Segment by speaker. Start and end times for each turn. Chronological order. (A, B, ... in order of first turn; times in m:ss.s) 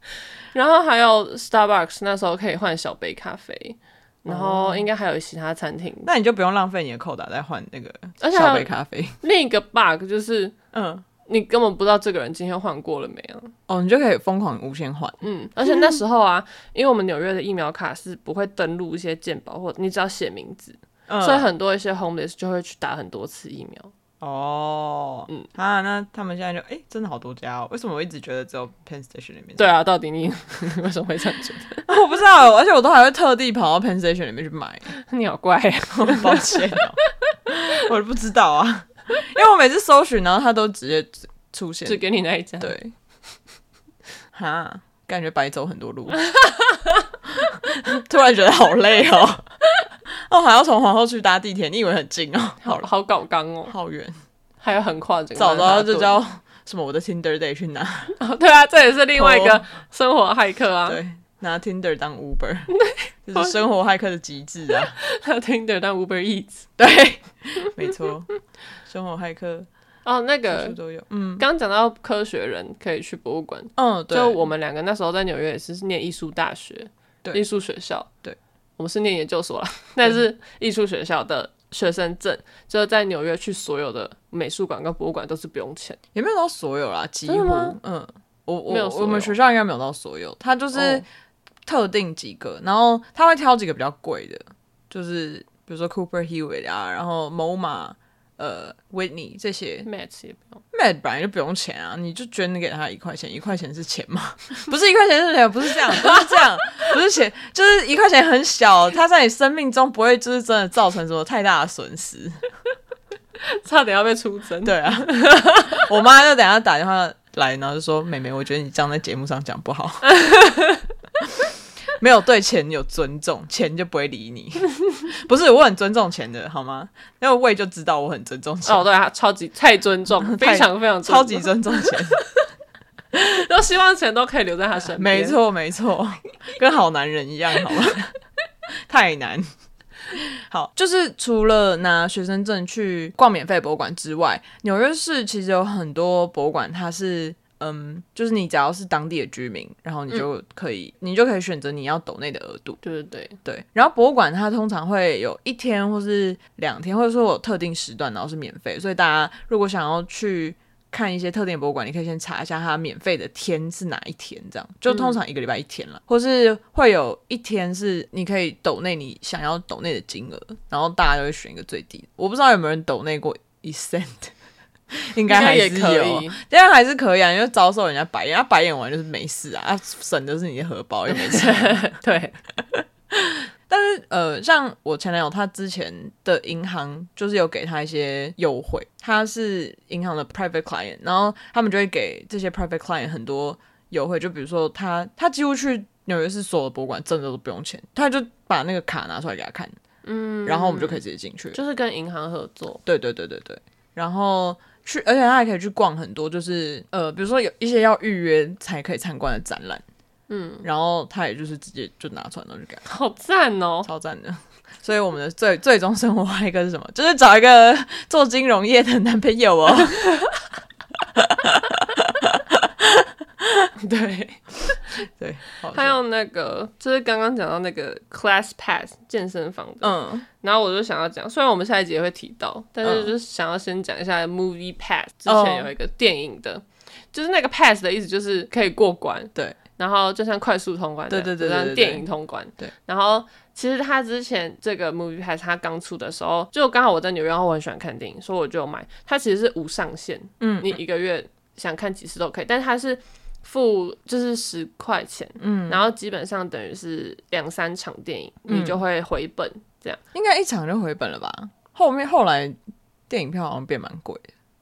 0:00.5-0:06.1 A
0:04.3-0:04.9 B
0:06.0-0:09.2 B
0:08.2-0:10.6 A
0:10.7-0:11.0 B
0:11.3-0:13.5 A
0:13.7-0:15.2 B
0:15.2-0:23.9 A
0:21.1-0:21.5 B
0:24.2-0:29.7 B
0:29.6-0:31.8 A
0:31.9-0:34.9 B
0:34.9-0:36.8 A
0:36.0-0:42.0 B
0:41.9-0:42.8 A
0:42.6-0:42.9 B
0:44.3-0:46.2 B
0:46.3-0:46.9 A
0:47.4-0:49.5 B
0:50.1-0:52.9 B
0:52.6-0:53.7 A
0:53.7-0:54.2 B
0:54.6-0:56.2 A
0:55.4-0:58.2 B
0:58.2-1:01.0 A
0:59.1-0:59.6 B
1:00.9-1:02.7 B
1:02.7-1:03.5 A
1:03.2-1:05.0 B
1:05.0-1:06.7 A
1:06.8-1:08.3 B
1:08.9-1:09.7 B
1:10.0-1:10.8 A
1:10.5-1:11.5 B
1:11.4-1:18.1 A
1:13.8-1:14.4 B
1:18.8-1:26.0 A
1:26.1-1:31.0 B
1:27.3-1:27.8 A
1:28.7-1:29.4 A
1:30.7-1:31.0 A
1:31.7-1:39.9 B
1:39.8-1:40.6 A
1:40.7-1:52.4 B
1:53.5-1:55.8 A
1:54.6-2:00.2 B
2:00.1-2:00.8 A
2:02.0-2:08.9 B
2:08.7-2:12.2 A
2:10.2-2:12.2 B
2:13.2-2:15.4 A
2:14.9-2:18.1 B
2:18.9-2:19.5 B
2:20.1-2:32.8 B
2:32.8-2:33.4 A
2:33.4-2:54.3 B
2:44.9-2:45.2 A
2:54.9-3:01.9 B
2:55.3-2:56.4 A
3:01.1-3:02.4 A
3:02.7-3:19.8 B
3:20.0-3:21.0 A
3:20.4-3:21.6 B
3:21.5-3:22.8 A
3:22.9-3:29.8 B
3:30.3-3:30.7 A
3:30.6-3:32.8 B
3:32.8-3:33.9 A
3:33.8-3:40.0 B
3:41.0-3:43.7 B
3:43.8-3:44.5 A
3:45.2-3:46.0 B
3:45.7-4:20.0 A
3:49.8-3:50.3 B
3:52.8-3:53.1 B
3:55.3-3:55.7 B
4:01.1-4:02.0 B
4:10.4-4:10.8 B
4:15.4-4:15.8 B
4:18.5-4:18.8 B
4:20.1-4:22.6 B
4:23.1-4:24.3 B